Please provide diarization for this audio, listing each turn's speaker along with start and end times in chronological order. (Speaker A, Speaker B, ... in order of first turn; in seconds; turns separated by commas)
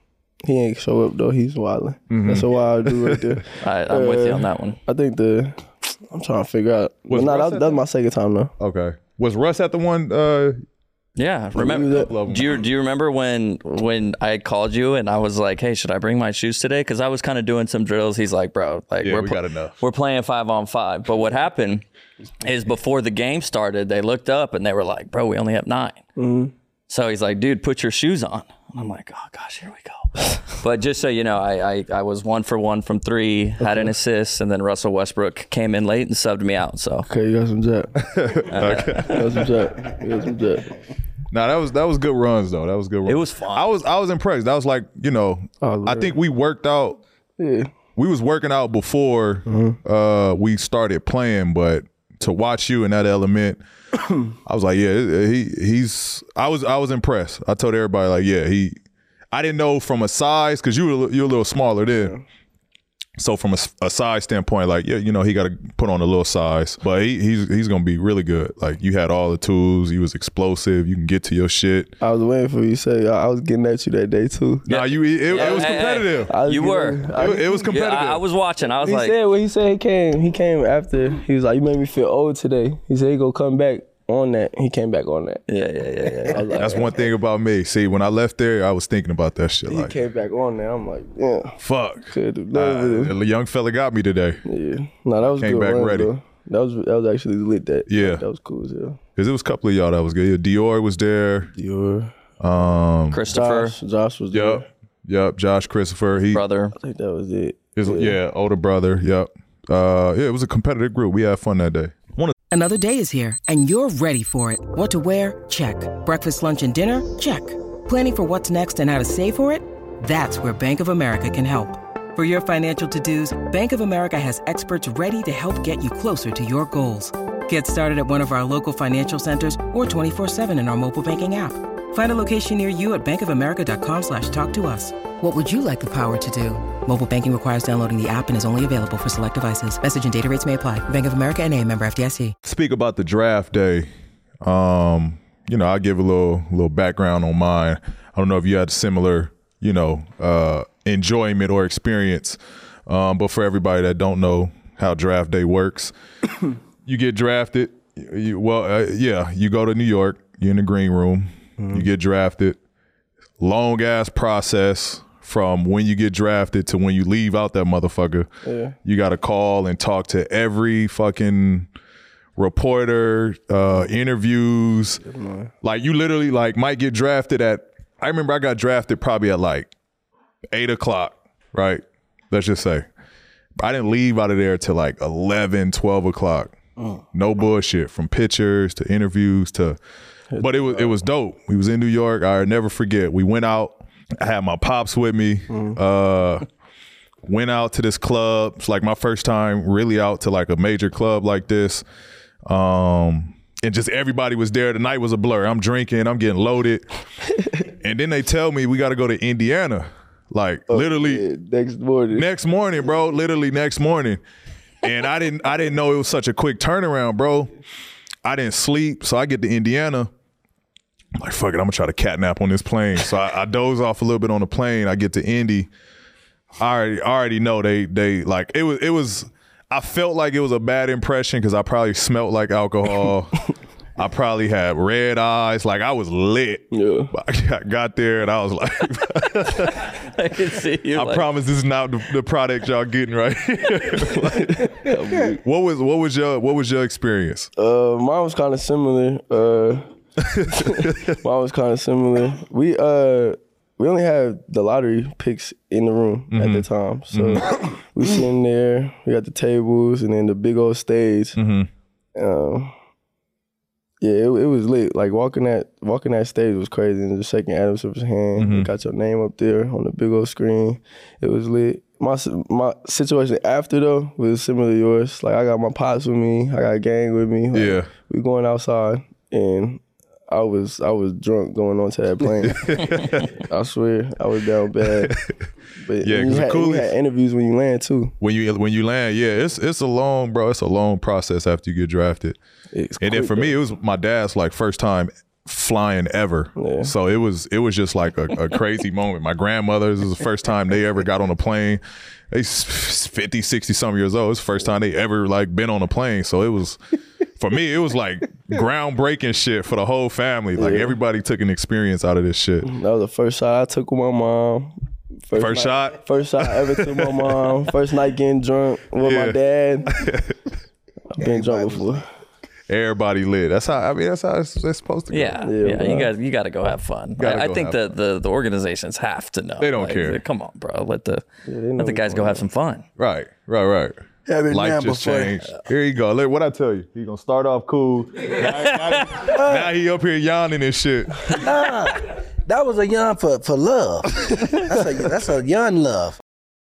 Speaker A: 0.4-8.5, Speaker B: 2.1-3.4, Speaker C: 3.6-4.8, Speaker B: 7.1-7.8, Speaker B: 8.6-10.6, Speaker C: 11.2-21.8, Speaker A: 11.6-12.2, Speaker B: 11.8-12.6, Speaker B: 19.0-19.8, Speaker C: 22.4-26.0, Speaker A: 26.2-26.5, Speaker C: 26.9-37.1, Speaker A: 33.6-33.9, Speaker A: 37.1-38.0, Speaker B: 38.0-39.5, Speaker C: 38.5-39.2, Speaker A: 38.6-40.7, Speaker B: 41.3-47.0, Speaker C: 43.1-43.7, Speaker A: 45.6-46.2, Speaker A: 47.4-47.7, Speaker B: 48.0-53.6, Speaker A: 49.5-49.8, Speaker B: 54.5-58.8, Speaker B: 59.3-62.2, Speaker B: 63.2-71.9, Speaker A: 72.0-74.7, Speaker B: 74.7-76.3, Speaker C: 74.7-77.1, Speaker A: 75.3-77.7, Speaker B: 77.1-78.2, Speaker C: 77.7-79.2, Speaker A: 78.8-85.4, Speaker C: 85.5-86.5, Speaker A: 86.3-86.9, Speaker B: 86.6-90.0, Speaker A: 89.7-93.2, Speaker B: 91.6-94.4, Speaker A: 94.5-99.0, Speaker B: 95.4-96.1, Speaker B: 97.9-98.2, Speaker B: 99.2-101.5, Speaker A: 101.5-102.2, Speaker B: 102.4-103.2, Speaker C: 103.1-103.8, Speaker A: 103.3-104.7, Speaker B: 104.3-106.4, Speaker C: 106.3-106.7, Speaker A: 106.8-108.2, Speaker B: 107.8-112.3, Speaker D: 112.5-142.3, Speaker B: 142.4-143.9, Speaker B: 144.4-155.9, Speaker B: 156.9-162.6, Speaker A: 161.6-161.9, Speaker B: 163.4-168.3, Speaker A: 168.4-168.8, Speaker B: 168.8-171.7, Speaker B: 172.4-175.0, Speaker A: 175.0-175.5, Speaker B: 175.6-179.7, Speaker B: 180.5-182.9, Speaker B: 183.6-186.6, Speaker B: 187.1-189.8, Speaker A: 190.3-190.9, Speaker B: 190.4-196.5, Speaker A: 195.5-195.8, Speaker B: 197.2-201.8, Speaker B: 202.5-206.9, Speaker B: 207.7-211.2, Speaker A: 210.7-212.3, Speaker B: 212.1-214.2, Speaker B: 214.8-217.5, Speaker B: 218.2-220.1, Speaker B: 221.2-225.7, Speaker B: 226.6-233.4, Speaker B: 234.0-240.0, Speaker A: 236.7-237.1, Speaker C: 240.0-241.3, Speaker B: 240.9-244.8, Speaker A: 244.1-245.4, Speaker B: 245.4-247.5, Speaker A: 247.6-249.9, Speaker B: 250.2-251.2, Speaker A: 250.5-261.4, Speaker B: 256.3-257.4, Speaker B: 261.4-261.7, Speaker A: 262.1-262.7, Speaker A: 264.0-285.2, Speaker B: 268.4-268.7, Speaker B: 277.5-277.9, Speaker B: 282.4-283.4, Speaker B: 284.9-285.3, Speaker A: 285.8-288.1, Speaker B: 286.0-286.9, Speaker B: 288.2-292.4, Speaker A: 292.7-293.5, Speaker B: 293.0-306.8, Speaker A: 296.6-296.9, Speaker B: 307.4-312.7, Speaker A: 310.6-311.0, Speaker A: 312.6-314.8, Speaker A: 315.3-320.1, Speaker B: 315.3-317.5, Speaker B: 319.0-319.4, Speaker B: 319.9-320.4, Speaker A: 321.1-322.1, Speaker E: 321.2-322.0, Speaker B: 322.7-325.4, Speaker C: 325.1-331.3, Speaker A: 325.4-326.1, Speaker B: 327.2-327.9, Speaker B: 329.6-330.2, Speaker A: 331.5-332.4, Speaker C: 331.8-332.8, Speaker B: 333.0-341.4, Speaker E: 334.3-335.4, Speaker C: 338.4-339.2, Speaker E: 339.3-339.7, Speaker E: 341.3-346.2